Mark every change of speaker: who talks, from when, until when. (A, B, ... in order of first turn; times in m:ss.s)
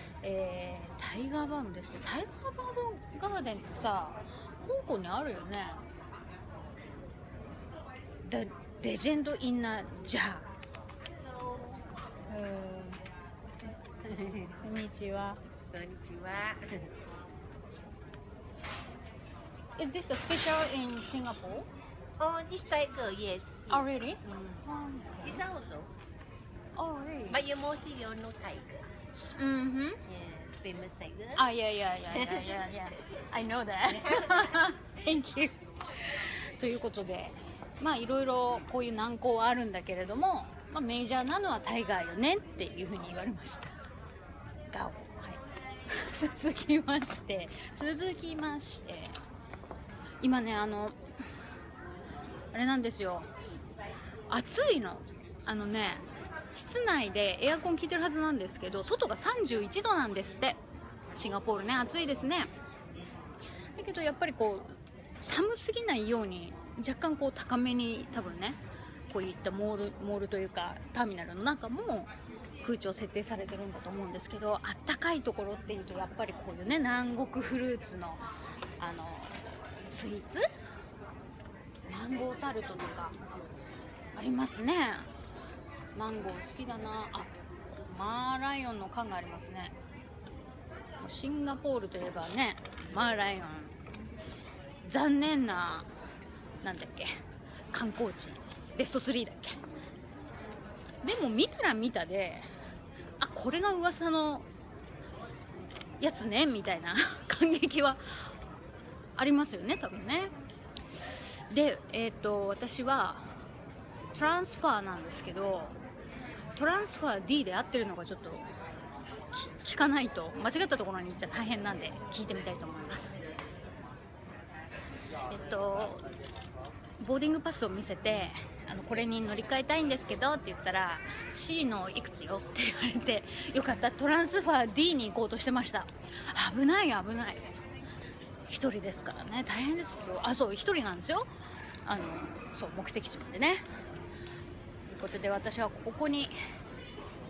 0:00.2-0:05.8 A
0:08.2-0:10.5 A
0:11.4-0:11.8 B
0:12.3-0:13.0 A
0:14.0-0:14.6 B
0:14.6-0:15.4 A
0:15.7-0:16.9 B
0:19.8-0:21.7 A
0:22.2-0:24.2 B
0:23.7-0:25.4 A
0:25.2-0:25.9 B
0:26.8-0:27.4 A
0:27.3-0:28.9 B
0:29.4-0:30.0 A
0:30.0-0:31.4 B
0:31.4-0:43.8 A
0:32.1-0:32.5 B
0:33.9-0:34.6 B
0:44.7-0:49.2 A
0:50.2-0:51.0 A
0:52.5-0:53.3 A
0:54.3-1:00.6 A
1:01.2-1:02.5 A
1:03.7-1:18.3 A
1:18.8-1:20.5 A
1:21.9-1:23.2 A
1:24.2-1:25.1 A
1:25.9-1:29.7 A
1:31.0-1:33.8 A
1:34.8-1:35.9 A
1:36.6-1:37.1 A
1:37.7-1:39.6 A
1:41.0-1:42.5 A
1:43.2-1:44.5 A
1:46.0-1:48.0 A
1:49.2-1:50.3 A
1:51.5-1:53.3 A
1:54.1-1:55.8 A
1:56.6-1:58.5 A
1:59.3-2:03.2 A
2:05.3-2:06.1 A
2:07.0-2:17.5 A
2:18.5-2:21.3 A
2:21.8-2:23.6 A
2:24.9-2:26.3 A